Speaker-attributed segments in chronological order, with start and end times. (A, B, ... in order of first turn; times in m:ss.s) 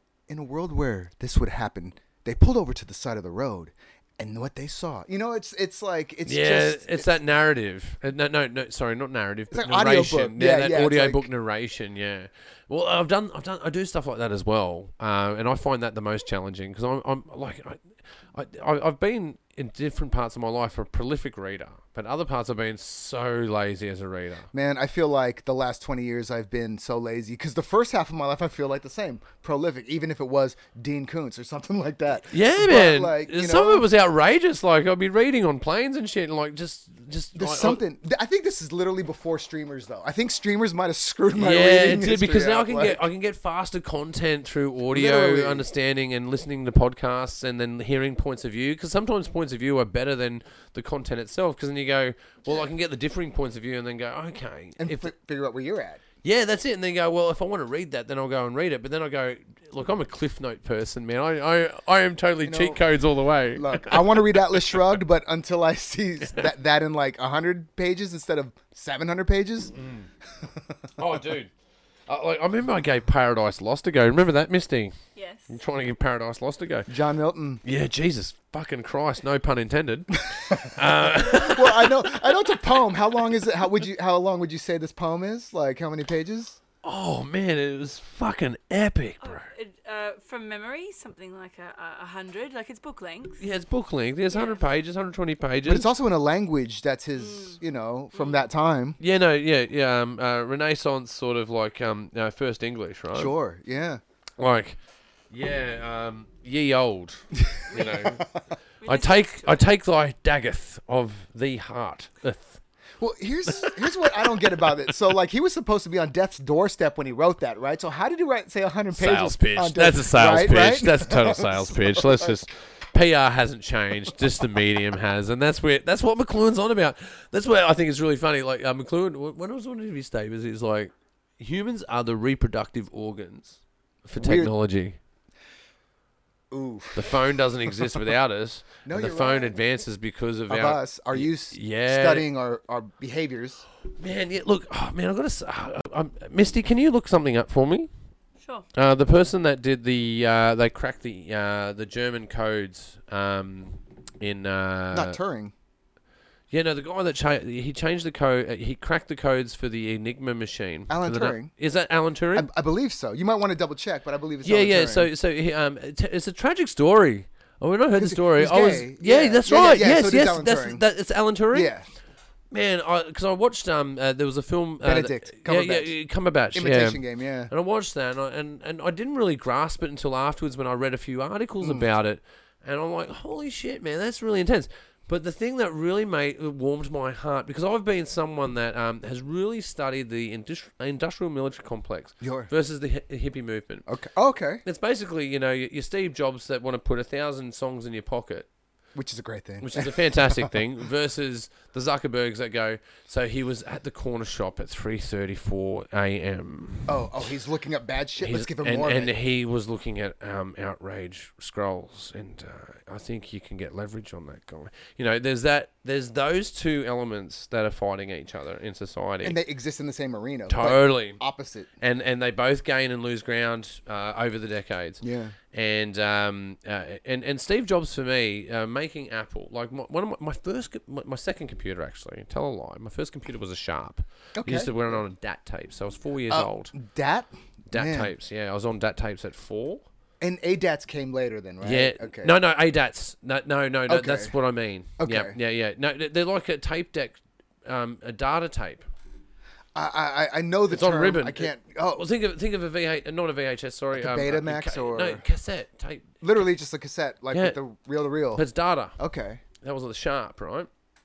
0:00.3-0:07.1 A
0:06.2-0:24.5 B
0:09.5-0:11.3 A
0:24.5-0:33.8 A
0:32.3-0:37.8 B
0:37.3-0:43.0 A
0:41.4-0:55.1 B
0:44.9-0:45.6 A
0:54.8-0:56.0 A
0:56.2-1:04.7 B
1:02.4-1:02.8 A
1:03.5-1:09.7 A
1:09.7-1:10.1 B
1:11.0-1:11.5 B
1:12.1-1:14.9 B
1:15.2-1:15.5 C
1:15.5-1:16.9 B
1:16.9-1:17.6 A
1:17.6-1:21.9 B
1:20.3-1:26.6 A
1:26.8-1:29.5 B
1:29.2-1:33.4 C
1:33.4-1:35.9 B
1:34.3-1:34.6 C
1:35.6-1:39.0 A
1:37.2-1:37.6 C
1:38.1-1:38.4 C
1:39.0-1:43.3 B
1:43.1-1:44.0 A
1:44.4-1:44.8 B
1:45.3-1:48.3 B
1:47.4-1:48.3 A
1:47.7-1:48.1 C
1:48.8-1:49.6 C
1:48.8-1:52.6 B
1:53.0-2:02.4 A
1:53.5-1:54.7 B
1:58.9-2:15.0 B
2:14.2-2:14.5 A
2:16.5-2:18.0 A
2:16.9-2:22.3 B
2:18.8-2:19.6 A
2:20.5-2:23.6 A
2:24.0-2:27.9 B
2:28.4-2:28.6 C
2:28.7-2:35.2 B
2:34.9-2:35.5 A
2:36.5-2:42.5 B
2:40.9-2:41.5 A
2:42.3-2:45.1 A
2:44.4-2:51.7 B
2:47.9-2:50.8 A
2:51.5-2:51.8 A
2:52.5-3:13.9 B
2:54.8-2:55.9 A
2:56.5-2:57.5 A
3:01.6-3:01.9 A
3:12.2-3:12.5 A
3:13.9-3:14.6 A
3:14.6-3:18.5 B
3:18.9-3:20.6 A
3:19.6-3:27.0 B
3:26.9-3:29.1 A
3:28.2-3:39.4 B
3:39.2-3:41.7 A
3:40.5-3:41.2 B
3:41.8-3:56.7 B
3:45.0-3:45.4 A
3:54.4-3:55.0 A
3:56.3-3:58.1 A
3:57.7-3:59.8 B
4:00.2-4:02.3 A
4:01.6-4:08.8 B
4:03.9-4:04.3 A
4:05.0-4:05.3 A
4:09.7-4:12.1 A
4:10.7-4:16.1 B
4:13.9-4:15.2 A
4:16.2-4:18.4 A
4:17.3-4:17.6 B
4:18.3-4:19.0 B
4:19.0-4:19.4 A
4:19.6-4:20.7 B